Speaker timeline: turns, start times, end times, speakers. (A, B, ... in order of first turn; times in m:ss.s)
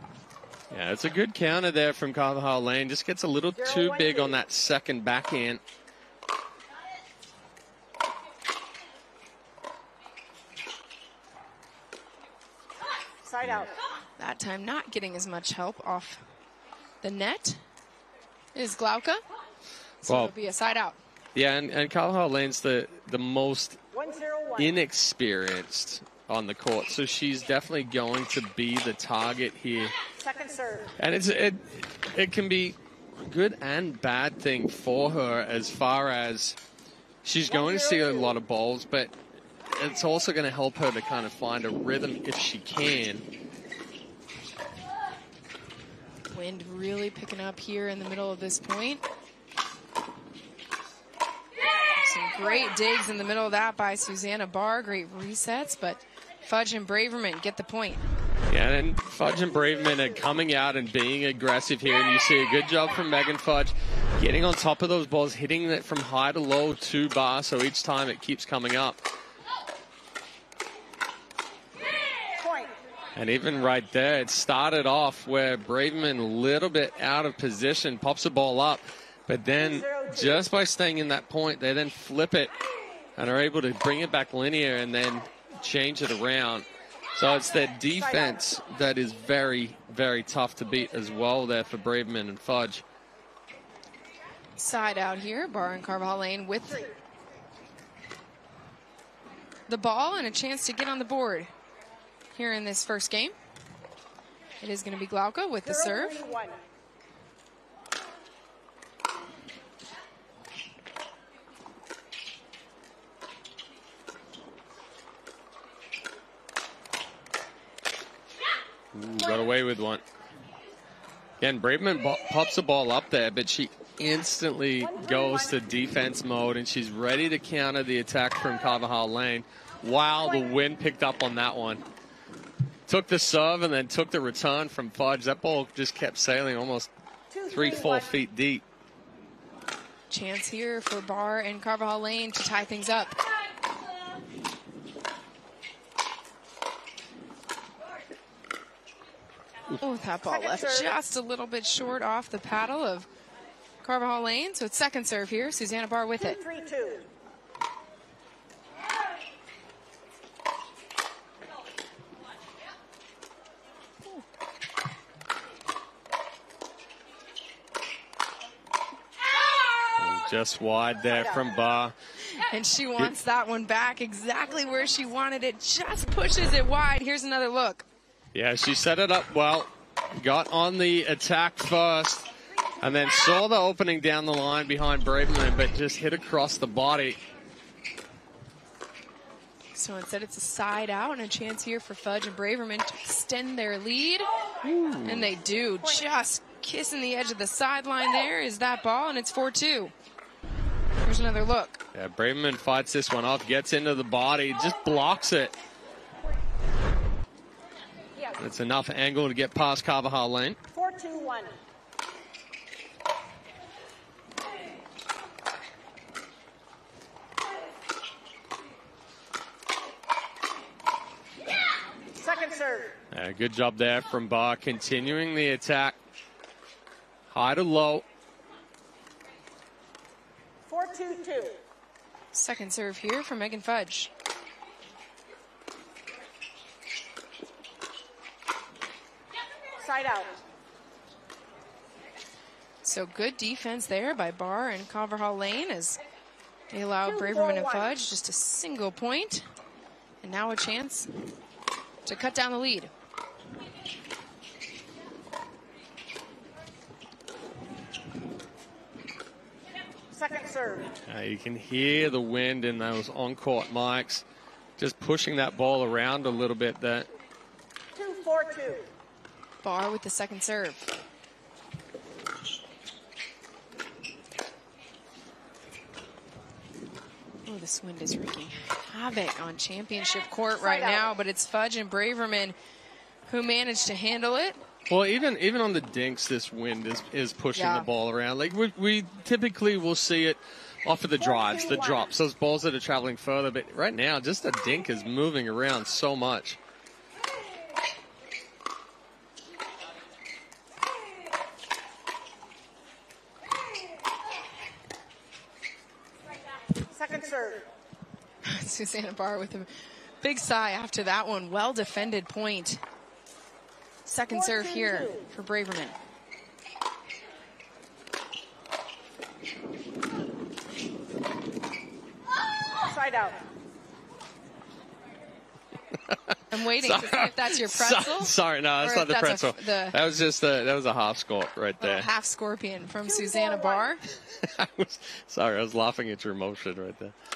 0:00.7-0:05.6 A
0:03.6-0:04.4 B
0:13.2-0:13.8 B
0:14.2-0:16.2 C
0:17.0-0:17.6 C
0:18.6-0:19.2 C
0:20.0-0:21.0 C
0:20.1-0:20.3 A
0:21.4-0:23.8 A
0:23.9-0:24.8 B
0:24.6-0:29.9 A
0:30.2-0:30.9 B
0:31.0-0:32.8 A
0:33.3-0:36.6 A
0:37.2-0:39.1 A
0:37.5-0:38.4 B
0:39.7-0:43.2 A
0:46.3-0:49.0 C
0:52.0-0:58.0 C
0:58.5-1:09.0 A
1:12.4-1:12.8 B
1:13.2-1:22.5 A
1:19.6-1:20.5 B
1:23.2-1:32.8 A
1:27.9-1:28.4 B
1:34.6-1:36.9 C
1:36.7-1:36.9 B
1:39.7-1:41.5 C
1:42.4-1:43.4 C
1:44.6-1:46.2 C
1:45.6-1:46.6 B
1:58.9-2:00.0 A
2:01.4-2:11.8 A
2:04.8-2:05.6 B
2:10.2-2:10.5 B
2:12.9-2:16.9 A
2:17.3-2:18.2 B
2:17.5-2:18.6 A
2:20.1-2:23.2 C
2:29.8-2:33.1 C
2:30.2-2:30.9 B
2:33.8-2:36.4 C
2:36.2-2:37.1 B
2:50.0-2:51.9 A
2:51.1-2:51.4 B
2:52.5-2:57.8 C
2:58.3-3:02.3 A
3:02.8-3:07.2 A
3:09.8-3:14.3 C
3:14.6-3:15.3 A
3:15.0-3:19.9 C
3:15.8-3:16.1 B
3:21.0-3:21.8 C
3:21.9-3:25.5 A
3:28.4-3:30.6 A
3:30.7-3:31.6 B
3:42.2-3:42.9 B
3:43.1-3:46.0 A
3:47.3-3:48.0 A
3:50.7-3:51.6 B
3:52.3-3:54.1 C
3:59.8-4:00.4 B
4:02.8-4:06.0 C
4:06.7-4:09.5 C
4:07.0-4:08.0 B
4:10.2-4:11.1 C
4:12.0-4:12.9 C
4:20.1-4:20.9 B
4:21.1-4:24.2 A
4:24.8-4:27.1 A
4:27.9-4:28.9 B
4:29.6-4:30.9 C
4:37.4-4:42.6 C
4:40.6-4:41.1 B
4:43.3-4:44.6 C
4:44.9-4:56.6 A
4:47.6-4:47.9 C
4:51.2-4:52.1 B
5:06.9-5:07.7 B
5:08.4-5:09.7 C
5:10.2-5:12.8 C
5:14.1-5:16.0 C
5:14.3-5:15.2 B
5:22.8-5:23.4 B
5:26.1-5:32.1 A
5:26.5-5:30.0 C
5:31.8-5:34.0 C
5:33.1-5:34.0 B
5:34.4-5:37.1 A